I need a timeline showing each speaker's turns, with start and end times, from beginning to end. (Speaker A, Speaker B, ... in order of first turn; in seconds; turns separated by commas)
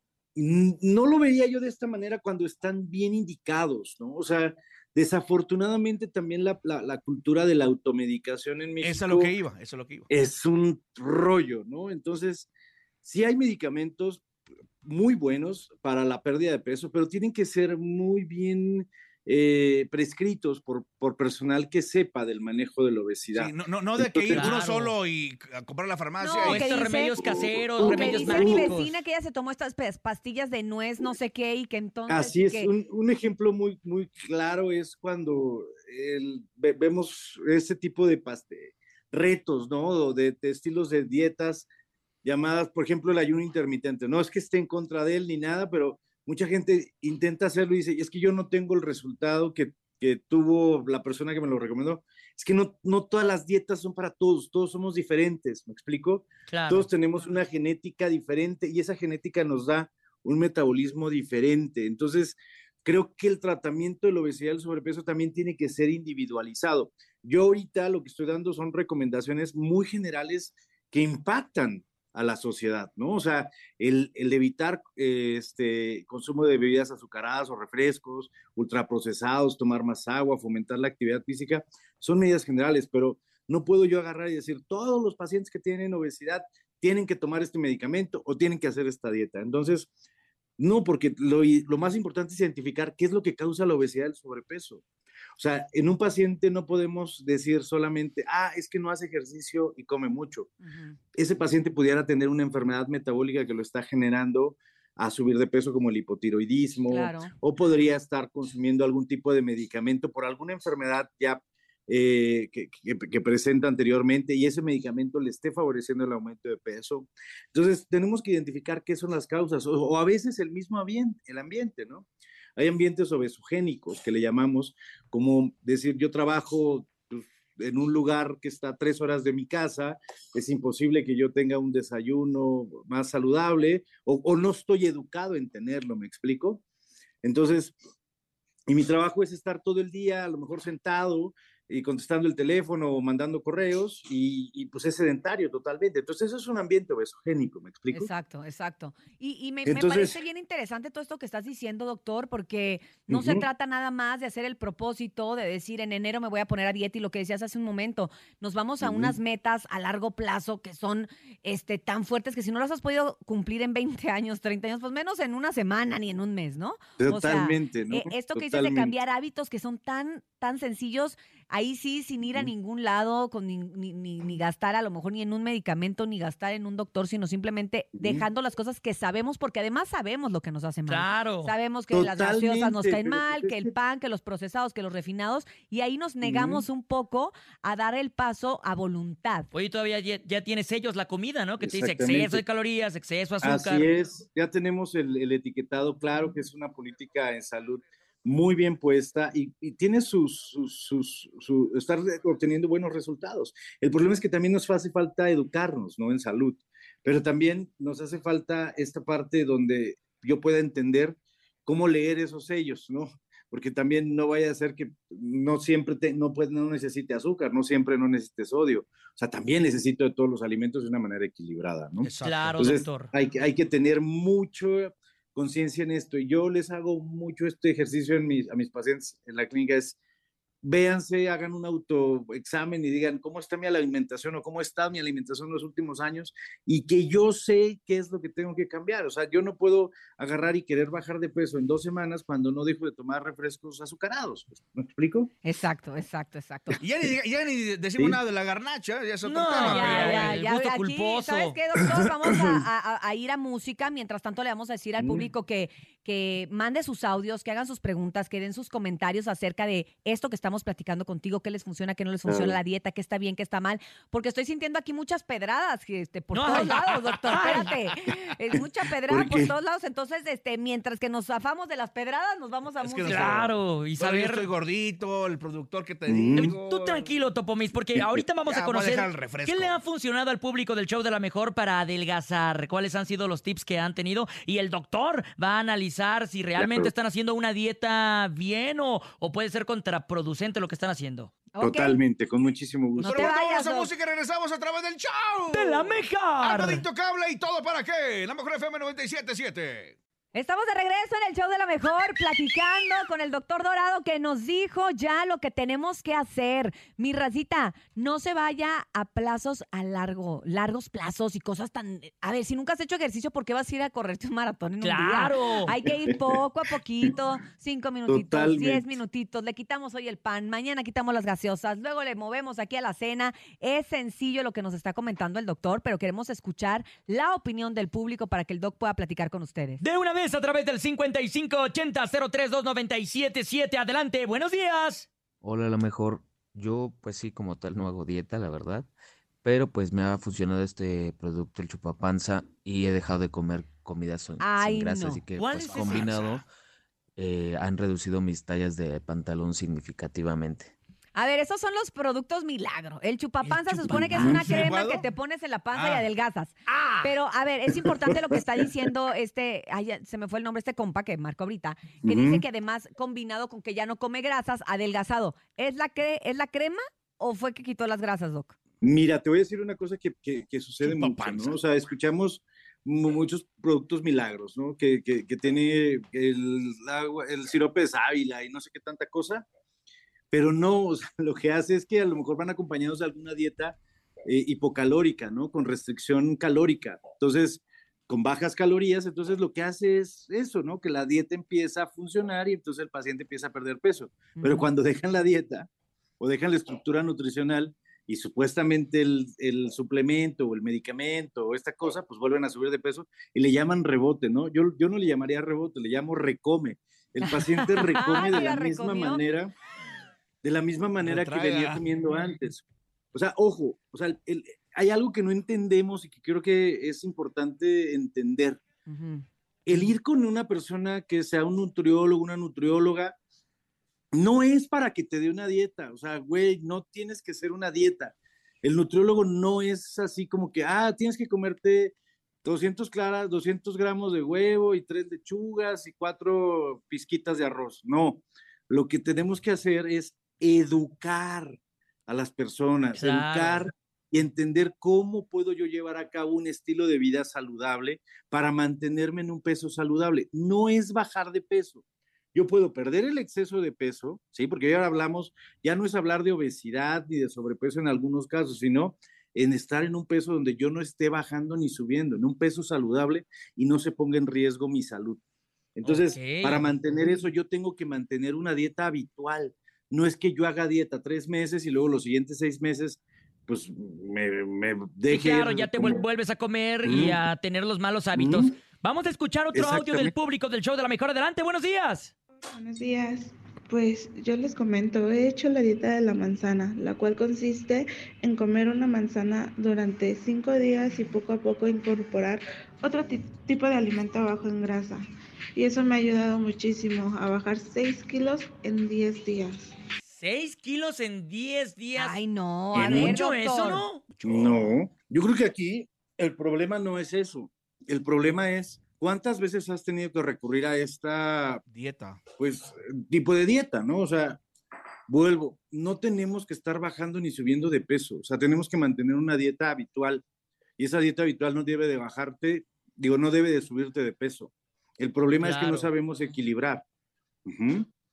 Speaker A: 0.3-9.3, Speaker B: 8.8-10.1, Speaker A: 10.1-12.5, Speaker A: 13.0-14.2, Speaker A: 14.8-24.6, Speaker B: 23.3-26.7, Speaker C: 24.3-24.9, Speaker D: 26.2-27.2, Speaker C: 26.4-28.9, Speaker A: 27.2-28.8, Speaker D: 27.8-32.7, Speaker A: 32.1-41.7, Speaker A: 42.2-89.9, Speaker C: 56.5-56.9, Speaker A: 90.6-94.8, Speaker A: 95.4-100.5, Speaker D: 100.6-101.0, Speaker A: 101.2-136.6, Speaker D: 106.9-107.3, Speaker A: 137.2-137.8, Speaker A: 138.7-148.1, Speaker D: 147.9-189.5, Speaker A: 149.7-150.2, Speaker A: 153.1-153.4, Speaker A: 158.8-159.2, Speaker A: 167.0-168.9, Speaker A: 172.2-172.5, Speaker A: 177.9-178.2, Speaker C: 180.9-181.5, Speaker A: 181.9-183.7, Speaker A: 186.2-186.7, Speaker C: 189.5-193.8, Speaker A: 191.6-192.4, Speaker A: 193.4-230.0, Speaker B: 222.0-222.6, Speaker C: 222.2-223.1, Speaker A: 230.6-245.3, Speaker D: 245.4-246.8, Speaker B: 246.8-250.4, Speaker C: 249.2-251.6, Speaker D: 249.5-273.4, Speaker A: 255.0-255.3, Speaker A: 262.2-262.6, Speaker C: 266.3-267.7, Speaker A: 269.1-269.5, Speaker B: 272.8-277.2, Speaker C: 273.0-274.5, Speaker A: 276.1-276.5, Speaker C: 276.3-291.3, Speaker B: 277.9-279.8, Speaker A: 286.6-286.9, Speaker D: 291.5-292.0, Speaker A: 291.6-293.3, Speaker D: 293.0-293.9, Speaker B: 293.0-300.0, Speaker C: 295.5-296.8, Speaker D: 300.3-329.8, Speaker C: 314.8-315.7, Speaker A: 315.9-316.3, Speaker A: 318.1-318.9, Speaker C: 329.8-335.1, Speaker E: 335.4-338.9, Speaker E: 339.4-346.4, Speaker D: 344.4-345.2, Speaker C: 345.3-346.2, Speaker B: 345.5-346.4, Speaker E: 347.2-350.7, Speaker D: 351.1-368.5, Speaker B: 353.5-355.1, Speaker A: 354.1-354.6, Speaker B: 355.7-356.1, Speaker C: 356.7-357.1, Speaker A: 357.8-358.4, Speaker A: 362.0-362.4, Speaker A: 368.8-379.4, Speaker B: 370.8-371.6, Speaker A: 380.3-395.7, Speaker D: 394.4-394.7, Speaker A: 396.2-409.5, Speaker C: 407.4-408.0, Speaker D: 408.1-409.2, Speaker A: 410.4-418.6, Speaker B: 411.0-411.8, Speaker D: 418.9-419.8, Speaker A: 419.6-423.1, Speaker A: 424.1-451.8, Speaker C: 442.9-443.6, Speaker A: 452.3-465.2, Speaker A: 465.8-476.1, Speaker C: 465.8-466.7, Speaker C: 475.1-482.1, Speaker A: 476.8-477.2, Speaker A: 478.1-478.5, Speaker A: 479.5-480.1, Speaker F: 482.5-495.0, Speaker F: 495.6-499.7, Speaker C: 500.1-502.2, Speaker D: 502.0-503.9, Speaker C: 502.7-504.2, Speaker B: 502.8-503.1, Speaker A: 502.8-503.1, Speaker B: 504.2-504.7, Speaker A: 504.2-511.6, Speaker B: 511.7-512.2, Speaker A: 512.4-514.4, Speaker A: 515.1-520.2, Speaker A: 520.8-526.8, Speaker C: 525.4-525.9, Speaker A: 527.5-527.9